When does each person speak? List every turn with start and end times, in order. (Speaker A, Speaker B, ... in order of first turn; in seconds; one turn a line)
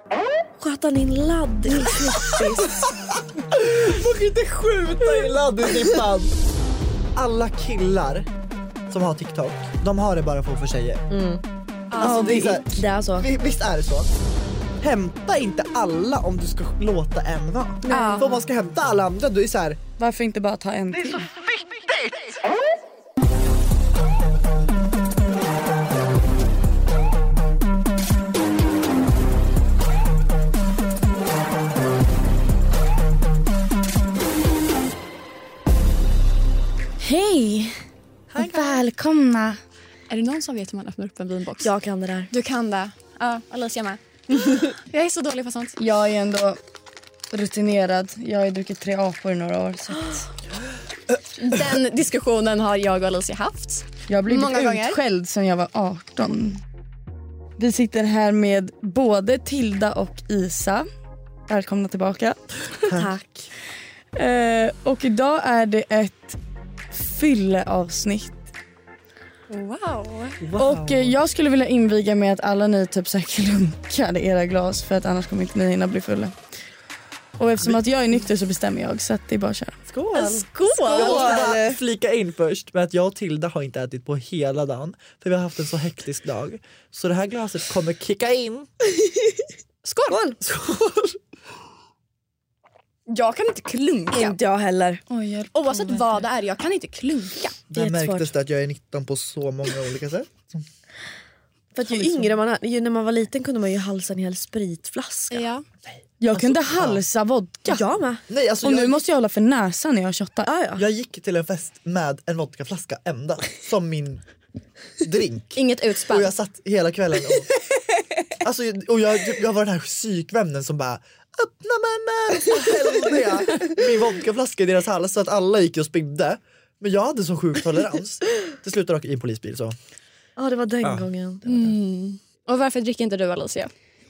Speaker A: 0.6-2.8
Speaker B: 3.5-6.3
Speaker B: 7.2-8.3
Speaker B: 8.9-11.0
Speaker A: 11.1-11.4
Speaker C: 11.9-12.6
Speaker A: 12.0-13.3
Speaker B: 12.0-14.1
Speaker B: 14.8-19.8
Speaker A: 17.8-18.2
Speaker C: 17.9-18.3
Speaker D: 20.0-21.2
Speaker B: 21.6-22.1
Speaker D: 37.0-37.8
Speaker B: 38.3-38.8
Speaker D: 38.4-39.6
Speaker C: 40.1-41.7
Speaker A: 41.6-42.3
Speaker C: 42.3-44.0
Speaker A: 44.3-44.5
Speaker C: 44.8-45.8
Speaker D: 45.8-46.6
Speaker D: 47.3-50.2
Speaker C: 51.4-55.0
Speaker D: 54.1-56.6
Speaker D: 57.6-60.9
Speaker D: 61.5-62.4
Speaker B: 62.8-63.1
Speaker A: 62.9-63.5
Speaker D: 64.2-66.4
Speaker D: 66.9-68.4
Speaker C: 69.5-70.4
Speaker B: 70.4-71.2
Speaker D: 70.6-76.3
Speaker D: 77.4-79.7
Speaker B: 79.9-88.7
Speaker C: 80.1-81.5
Speaker A: 80.9-81.8
Speaker C: 89.8-90.2
Speaker A: 90.1-90.4
Speaker B: 90.4-91.2
Speaker C: 93.1-94.4
Speaker A: 94.1-95.0
Speaker D: 95.1-96.2
Speaker C: 95.5-97.5
Speaker B: 97.7-100.6
Speaker A: 97.7-98.3
Speaker A: 101.7-105.5
Speaker B: 101.9-102.2
Speaker C: 105.3-105.6
Speaker B: 105.9-107.0
Speaker D: 106.2-107.8
Speaker A: 107.7-108.2
Speaker B: 108.3-109.0
Speaker D: 108.6-110.5
Speaker A: 110.4-110.8
Speaker B: 110.8-114.2
Speaker B: 115.0-117.5
Speaker C: 115.5-116.3
Speaker B: 118.4-129.8
Speaker A: 130.4-131.4
Speaker B: 130.8-131.7
Speaker C: 131.4-133.7